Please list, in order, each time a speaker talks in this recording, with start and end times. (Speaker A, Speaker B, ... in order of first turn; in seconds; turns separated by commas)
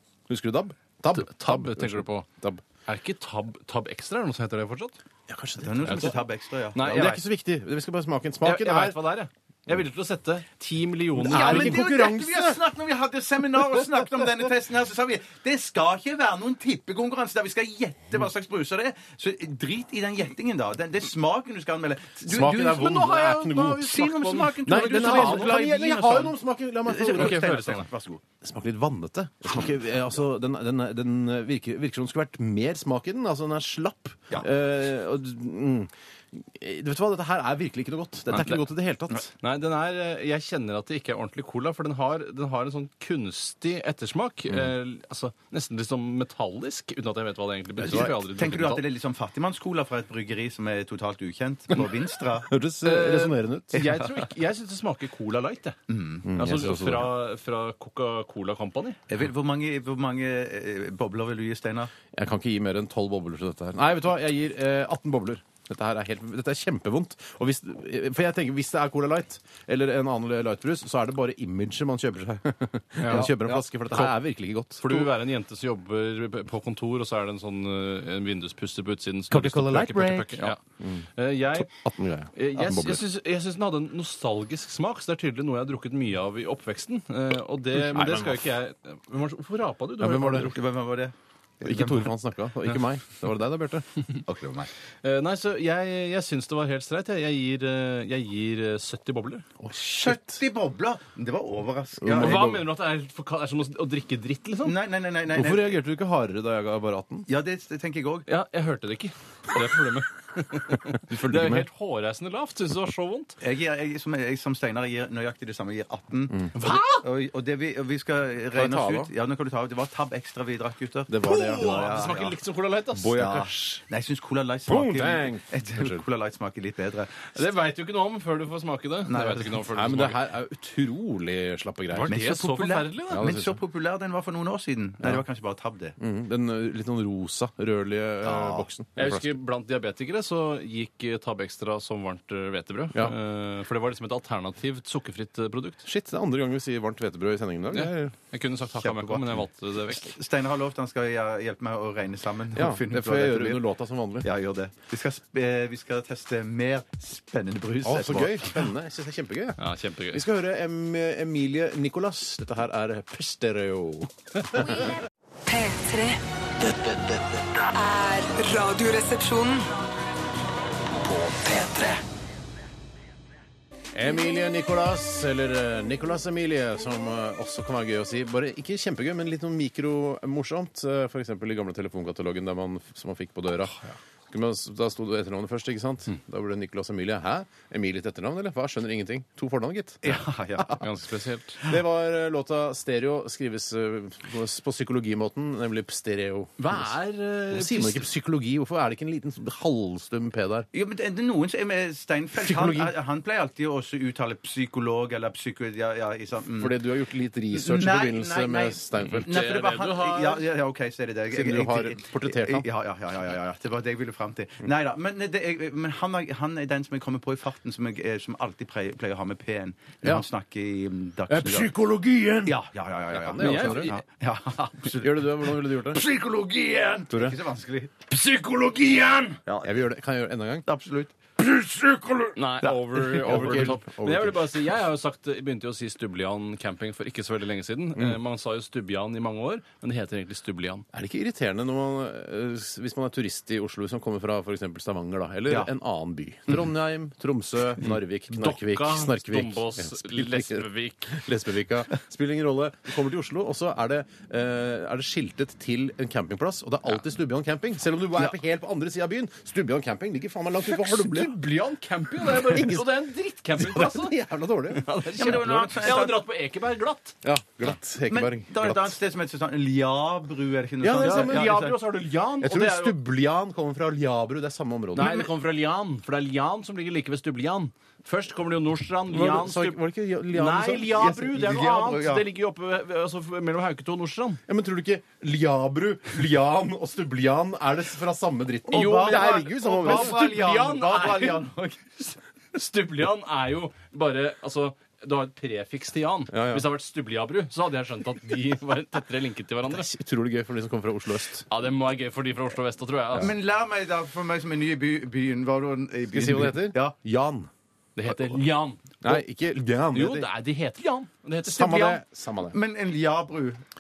Speaker A: 0.3-2.6, Speaker B: 1.1-2.2, Speaker B: 2.9-5.0, Speaker A: 5.3-6.2, Speaker C: 5.6-7.1, Speaker B: 5.8-6.2, Speaker B: 6.7-7.2, Speaker A: 6.8-9.0, Speaker B: 8.4-11.8, Speaker A: 11.2-12.6, Speaker C: 11.2-28.2, Speaker A: 22.2-27.6, Speaker B: 22.8-25.5, Speaker B: 27.1-27.9, Speaker A: 28.4-39.3, Speaker B: 38.3-38.6, Speaker B: 39.4-48.8, Speaker A: 47.8-48.1, Speaker C: 47.8-52.5, Speaker A: 52.5-53.8, Speaker B: 52.8-55.8, Speaker C: 53.8-54.0, Speaker C: 55.9-56.3, Speaker A: 56.2-57.1, Speaker B: 56.3-59.0, Speaker C: 59.1-61.9, Speaker A: 62.1-75.1, Speaker B: 73.0-73.4, Speaker C: 73.1-73.5, Speaker B: 74.8-80.6, Speaker A: 79.3-83.0, Speaker C: 79.7-80.5, Speaker B: 81.1-81.7, Speaker B: 82.3-90.5, Speaker A: 87.7-88.4, Speaker A: 90.0-90.5, Speaker C: 90.3-92.1, Speaker A: 91.6-93.8, Speaker C: 94.3-94.7, Speaker B: 95.0-99.4, Speaker A: 99.6-100.4, Speaker C: 99.9-102.5, Speaker A: 102.0-102.7, Speaker B: 102.1-104.8, Speaker C: 104.6-105.8, Speaker A: 105.3-107.3, Speaker C: 107.3-108.3, Speaker B: 108.3-113.3, Speaker A: 111.1-111.7, Speaker C: 113.4-122.3, Speaker B: 116.5-117.0, Speaker A: 118.5-119.1, Speaker A: 121.1-122.0, Speaker B: 121.2-123.8, Speaker A: 123.0-123.5, Speaker C: 123.1-127.3, Speaker A: 124.7-126.0, Speaker B: 127.3-130.2, Speaker C: 129.1-129.6, Speaker A: 129.7-132.1, Speaker B: 131.9-133.3, Speaker C: 132.1-135.9, Speaker A: 133.1-133.6, Speaker A: 136.0-139.3, Speaker C: 138.2-138.7, Speaker B: 138.9-145.8, Speaker A: 145.8-148.1, Speaker B: 147.7-150.2, Speaker C: 148.8-149.4, Speaker C: 149.9-153.6, Speaker A: 152.5-154.3, Speaker C: 154.2-158.6, Speaker A: 157.8-164.8, Speaker B: 159.6-160.2, Speaker D: 165.5-166.2, Speaker E: 166.6-167.4, Speaker D: 167.7-169.8, Speaker E: 170.8-172.0, Speaker A: 173.9-183.8, Speaker A: 184.3-190.8, Speaker C: 190.0-190.9, Speaker B: 190.8-191.6, Speaker A: 191.6-196.9, Speaker B: 196.6-198.1, Speaker A: 197.5-200.7, Speaker C: 200.7-206.8, Speaker A: 202.3-202.9, Speaker A: 206.6-209.4, Speaker C: 207.5-221.7, Speaker B: 209.1-210.4, Speaker A: 211.3-212.7, Speaker A: 221.3-222.6, Speaker C: 222.4-228.2, Speaker A: 223.1-223.9, Speaker B: 223.4-224.0, Speaker A: 224.9-226.0, Speaker A: 227.1-227.4, Speaker A: 228.3-230.7, Speaker C: 229.4-229.8, Speaker C: 230.7-231.1, Speaker A: 231.4-232.4, Speaker B: 232.3-240.8, Speaker C: 232.6-233.6, Speaker A: 233.1-234.5, Speaker A: 240.9-261.4, Speaker B: 248.3-251.2, Speaker B: 260.7-264.2, Speaker A: 262.2-264.8, Speaker B: 264.7-267.1, Speaker C: 265.1-266.2, Speaker A: 267.2-269.0, Speaker C: 268.1-271.8, Speaker A: 270.8-271.7, Speaker B: 270.9-273.0, Speaker A: 272.4-275.1, Speaker B: 274.9-284.4, Speaker C: 274.9-275.3, Speaker A: 279.1-281.1, Speaker C: 280.9-282.3, Speaker A: 284.5-290.2, Speaker C: 288.7-292.1, Speaker B: 288.7-291.5, Speaker B: 292.5-299.9, Speaker A: 296.3-296.7, Speaker A: 299.7-301.4, Speaker B: 301.5-303.3, Speaker C: 303.1-306.9, Speaker A: 306.1-307.5, Speaker B: 307.9-309.2, Speaker A: 309.0-310.3, Speaker B: 309.9-312.0, Speaker A: 311.4-312.6, Speaker C: 312.5-313.6